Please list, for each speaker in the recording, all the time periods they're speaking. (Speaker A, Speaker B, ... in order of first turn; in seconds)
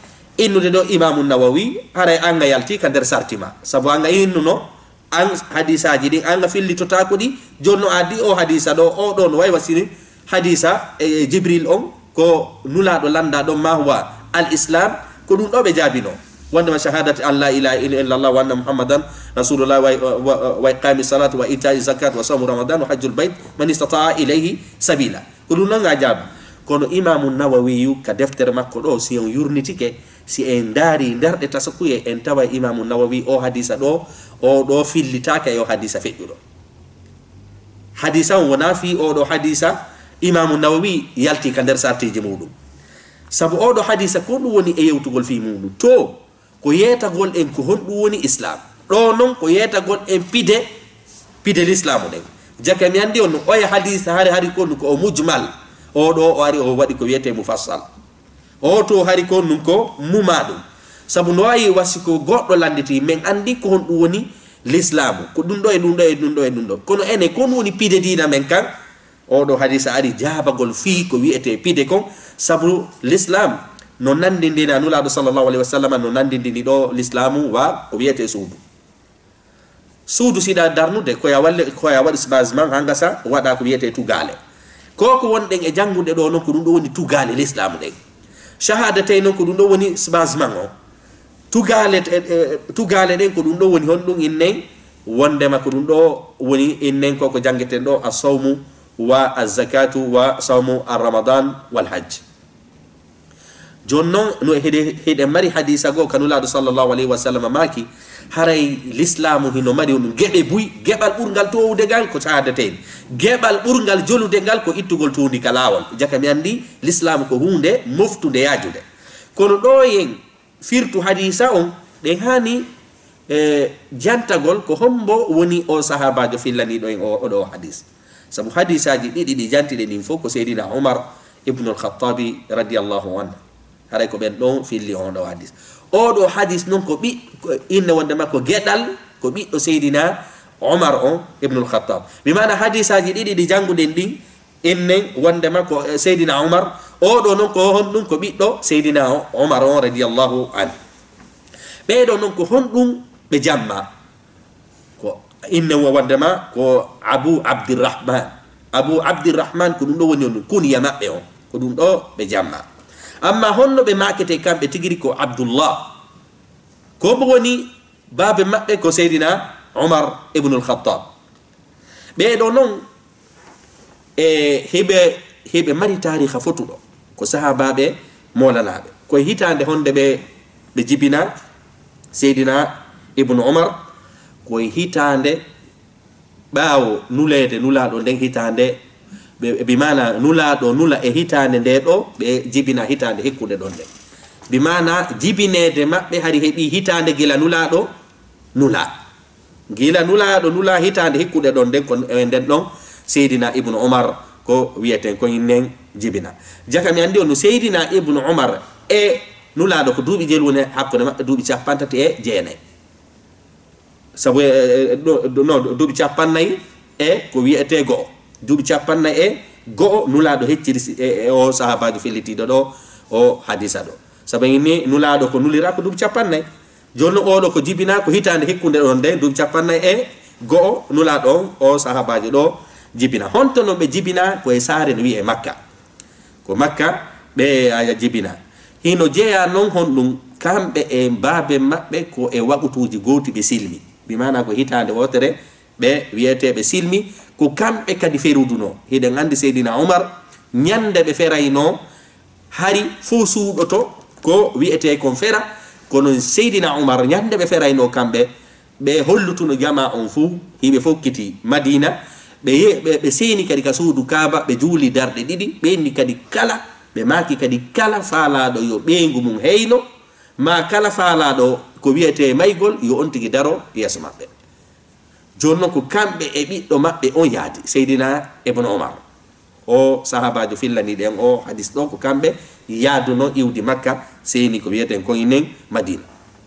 Speaker A: 0.4-36.4, 38.0-42.5, 43.3-50.6, 51.4-57.9, 58.6-68.7, 69.3-78.6, 80.1-84.4, 85.0-88.0, 88.6-90.7, 91.5-102.2, 103.9-118.8, 119.3-122.7, 123.3-133.4, 133.9-150.8, 151.9-153.9, 155.0-162.7, 163.2-165.9, 167.0-171.1, 172.2-172.8, 174.2-180.2, 180.8-181.3, 182.1-183.8, 184.4-185.4, 186.5-188.8, 189.4-193.9, 194.5-197.9, 198.6-198.9, 199.7-212.6, 214.2-226.4, 226.9-235.6, 236.4-251.8, 252.5-269.8, 270.4-274.3, 275.4-279.0, 279.7-286.1